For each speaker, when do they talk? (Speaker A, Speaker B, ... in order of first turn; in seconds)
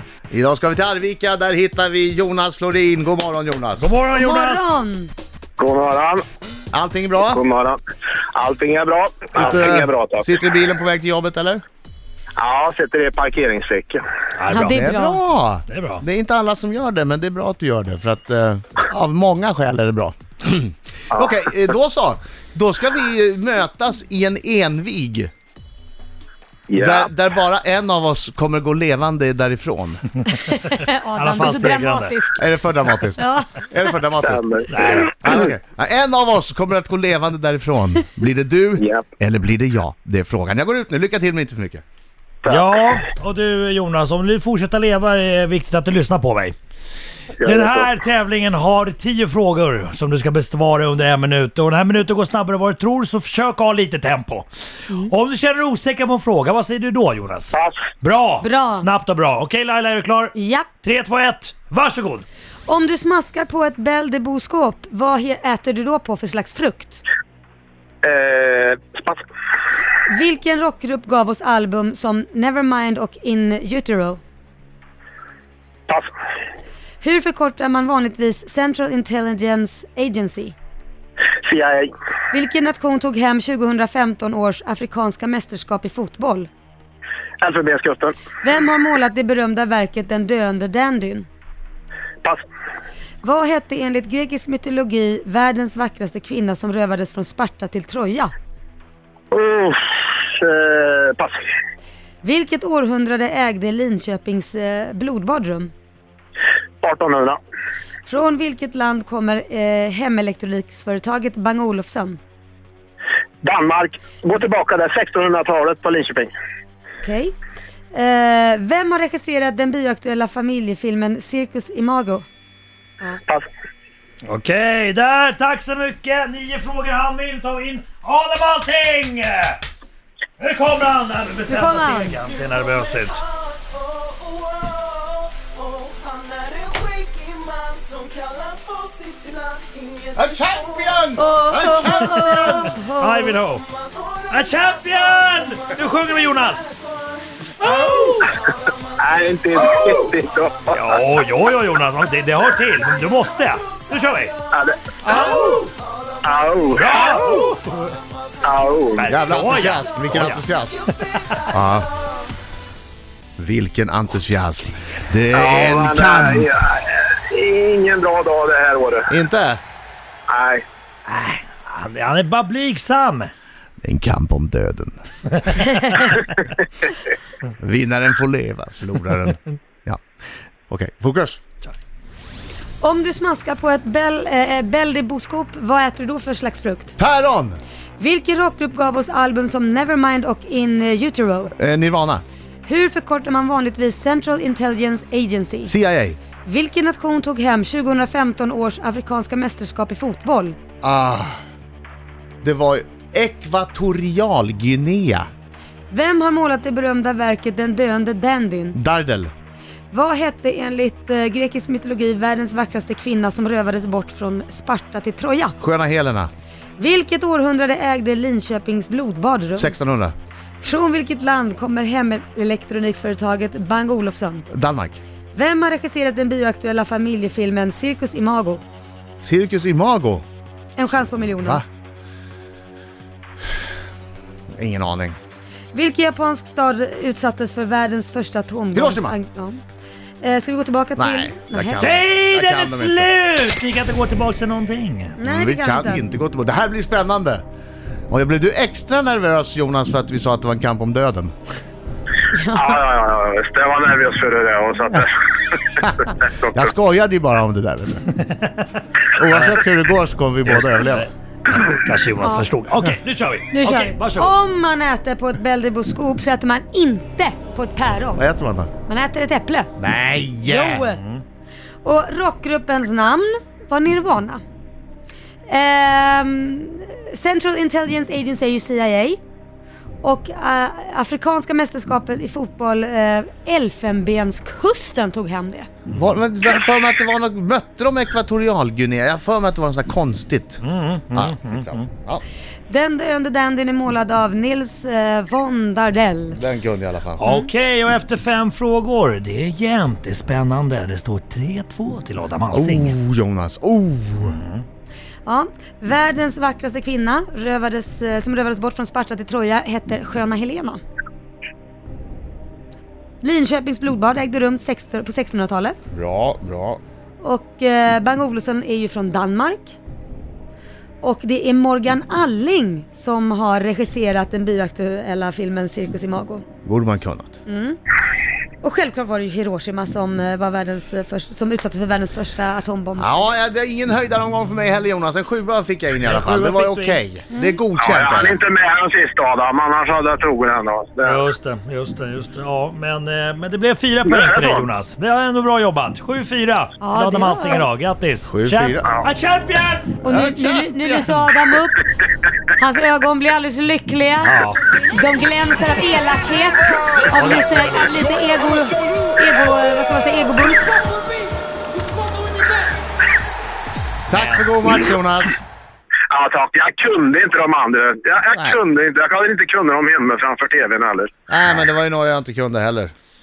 Speaker A: 0.3-3.9, 6.7-7.4, 9.3-11.6, 14.6-25.3, 26.8-30.0, 32.4-41.8, 140.1-142.7, 155.0-155.7, 159.1-160.9, 161.5-161.9, 163.4-166.5, 169.1-169.6, 173.8-175.0, 177.6-180.0, 180.7-181.4, 187.0-187.6, 191.6-192.2, 195.7-196.2, 200.8-201.4, 202.4-205.3, 208.7-209.3, 215.6-216.3, 219.6-220.1, 224.5-225.0, 229.2-230.2, 231.1-231.6, 234.6-235.2, 238.7-239.2, 241.0-243.1, 245.2-247.4, 248.1-251.3, 255.8-258.0, 259.1-261.1, 268.2-268.7, 269.8-270.9, 285.9-290.6, 291.1-292.2, 296.3-297.2, 302.5-304.4, 315.9-316.8, 326.6-327.4, 333.0-338.4, 348.3-348.9, 350.2-350.5, 357.1-357.9, 364.1-365.4, 371.3-372.9
Speaker B: 3.8-4.7, 14.3-14.8, 15.7-16.0, 31.1-32.1, 34.7-35.1, 42.5-46.5, 47.4-62.2, 124.2-129.6, 130.4-133.2, 142.4-143.7, 144.3-146.7, 147.6-148.3, 150.7-154.4, 156.7-158.0, 159.0-160.5, 161.0-161.5, 171.1-173.3, 241.8-245.1, 260.4-264.3, 270.9-271.2, 290.6-291.9, 297.2-302.9, 304.2-304.6, 336.0-337.0, 341.0-351.2, 354.2-354.6, 364.1-364.4
Speaker C: 4.1-5.1, 14.5-15.2, 30.2-32.4, 33.1-33.7, 58.4-58.9, 60.3-60.7, 62.7-67.0, 70.1-74.2, 77.0-80.5, 82.3-86.5, 88.4-91.3, 93.2-98.3, 102.2-105.7, 108.1-112.2, 117.0-117.3, 117.9-122.2, 131.5-132.2, 141.1-143.4, 182.8-186.9, 188.0-191.5, 192.7-195.7, 196.4-200.6, 205.9-208.8, 209.9-215.6, 216.8-219.8, 220.6-224.5, 225.3-228.6, 230.8-231.6, 235.7-239.6, 240.2-242.0, 245.2-246.1, 252.3-252.8, 262.2-262.5, 263.5-268.2, 268.9-269.7, 270.4-271.0, 271.8-274.4, 275.5-279.2, 280.0-285.7, 292.7-296.4, 297.2-297.5, 305.2-310.8, 313.2-315.9, 317.2-319.7, 321.0-326.4, 327.4-327.8, 328.6-333.2, 337.3-337.6, 346.8-347.6, 350.0-351.9, 352.5-360.8
Speaker D: 5.6-6.2, 7.2-7.8, 8.3-10.3, 12.4-14.0, 26.7-27.1, 34.2-35.1, 38.8-39.0, 47.4-47.9, 57.5-57.8, 68.0-69.2, 81.5-81.9, 87.4-88.2, 99.3-101.4, 106.8-107.4, 113.4-116.3, 149.0-151.0, 154.5-155.0, 156.2-157.4, 158.4-159.1, 165.3-169.1, 170.3-170.6, 252.6-256.7, 337.8-341.2, 344.1-344.7, 366.1-371.1
Speaker E: 136.0-140.0